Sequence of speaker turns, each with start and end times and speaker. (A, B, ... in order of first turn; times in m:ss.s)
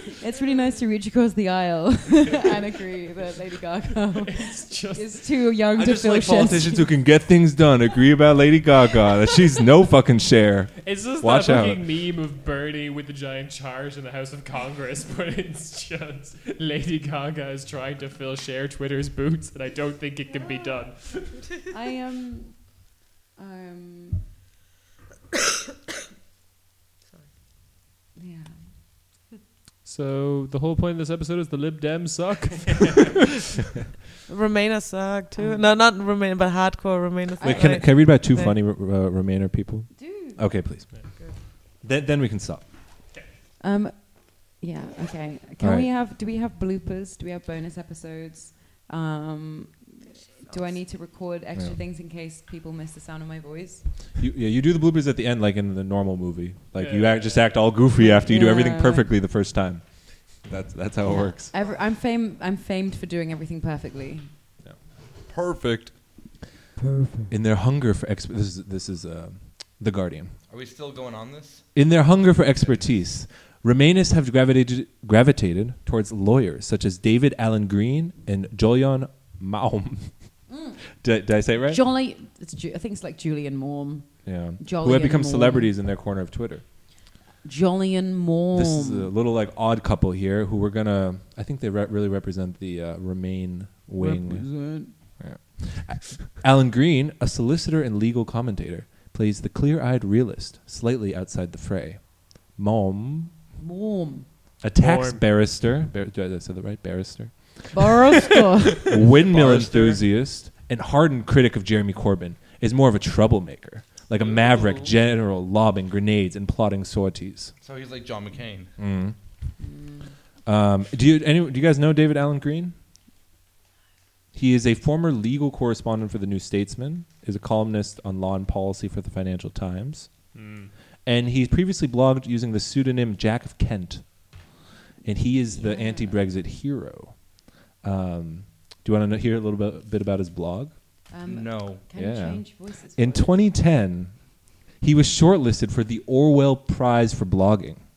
0:00.1-0:07.0 A
0:04.2-0:05.4 B
0:05.8-0:11.8 C
0:10.8-0:21.4 B
0:21.7-0:22.8 A
0:23.4-0:24.3 A
0:28.2-0:28.7 A
0:29.8-0:33.3 B
0:34.3-0:38.6 D
0:35.4-0:35.6 A
0:37.4-0:37.8 A
0:37.4-0:42.7 C
0:40.0-0:40.4 A
0:43.6-0:53.9 A
0:45.6-0:45.9 C
0:54.2-1:01.5 C
0:56.8-0:57.8 B
0:58.0-0:59.1 A
1:01.0-1:04.4 A
1:05.3-1:06.0 E
1:06.8-1:07.3 A
1:07.3-1:10.4 C
1:10.5-1:11.8 E
1:11.7-1:20.5 C
1:12.6-1:12.9 E
1:20.5-1:20.8 A
1:21.0-1:21.8 C
1:21.5-1:25.7 A
1:24.2-1:26.6 C
1:27.4-1:29.1 A
1:28.5-1:43.3 C
1:34.0-1:35.0 A
1:43.6-1:44.3 A
1:44.6-1:47.9 C
1:44.8-1:45.2 B
1:47.7-1:48.8 A
1:48.8-1:57.5 C
1:48.9-1:50.0 E
1:54.2-1:54.9 E
1:57.6-1:58.7 E
1:58.8-1:59.2 C
1:59.6-2:00.1 A
2:00.5-2:02.7 C
2:04.3-2:10.4 C
2:10.3-2:10.7 B
2:11.0-2:14.5 C
2:15.0-2:20.8 C
2:15.5-2:16.2 A
2:21.1-2:23.5 A
2:21.3-2:21.8 E
2:21.9-2:27.8 C